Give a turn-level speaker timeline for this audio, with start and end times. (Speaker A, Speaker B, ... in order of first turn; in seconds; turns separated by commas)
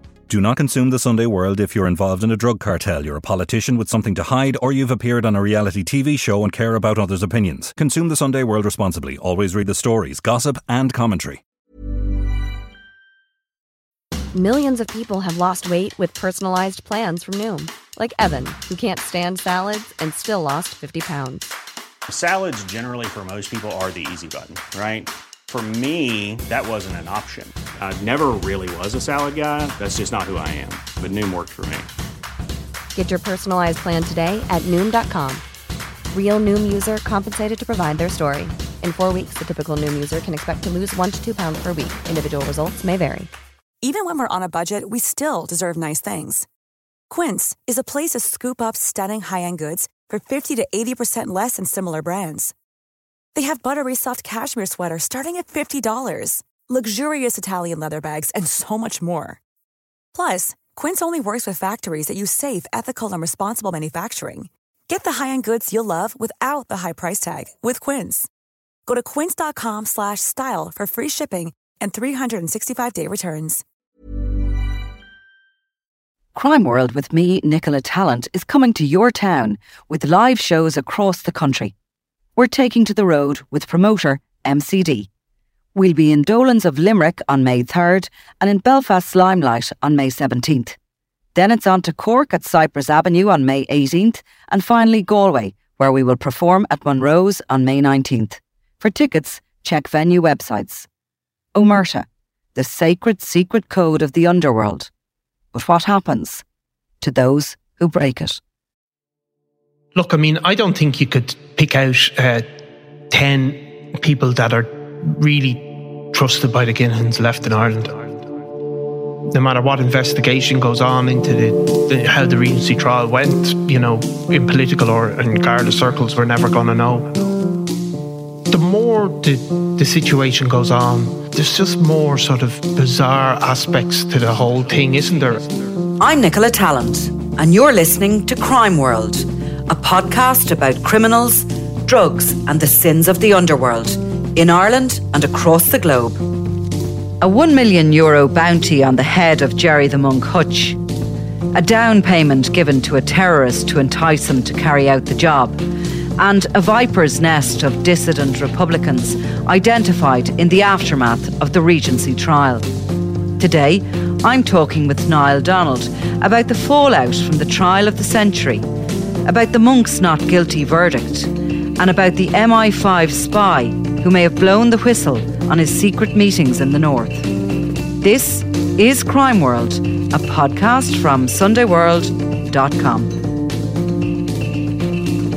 Speaker A: 0.3-11.4, Speaker B: 14.3-21.4, Speaker C: 22.1-31.9, Speaker B: 32.9-35.4, Speaker B: 36.1-43.3, Speaker D: 43.8-46.5, Speaker D: 47.1-52.5, Speaker D: 53.3-59.4, Speaker D: 60.1-68.3, Speaker D: 68.9-73.6, Speaker E: 76.3-81.7, Speaker E: 82.3-85.1, Speaker E: 85.7-90.8, Speaker E: 91.3-100.9, Speaker E: 101.5-104.9, Speaker E: 105.5-106.4, Speaker E: 107.0-108.4, Speaker F: 109.9-112.5, Speaker F: 113.1-118.2, Speaker F: 119.3-127.2, Speaker F: 128.5-135.5, Speaker E: 136.0-146.2, Speaker E: 147.2-150.8, Speaker E: 151.5-155.6, Speaker E: 156.2-162.7, Speaker E: 163.4-168.6, Speaker E: 169.2-177.3, Speaker E: 178.0-183.1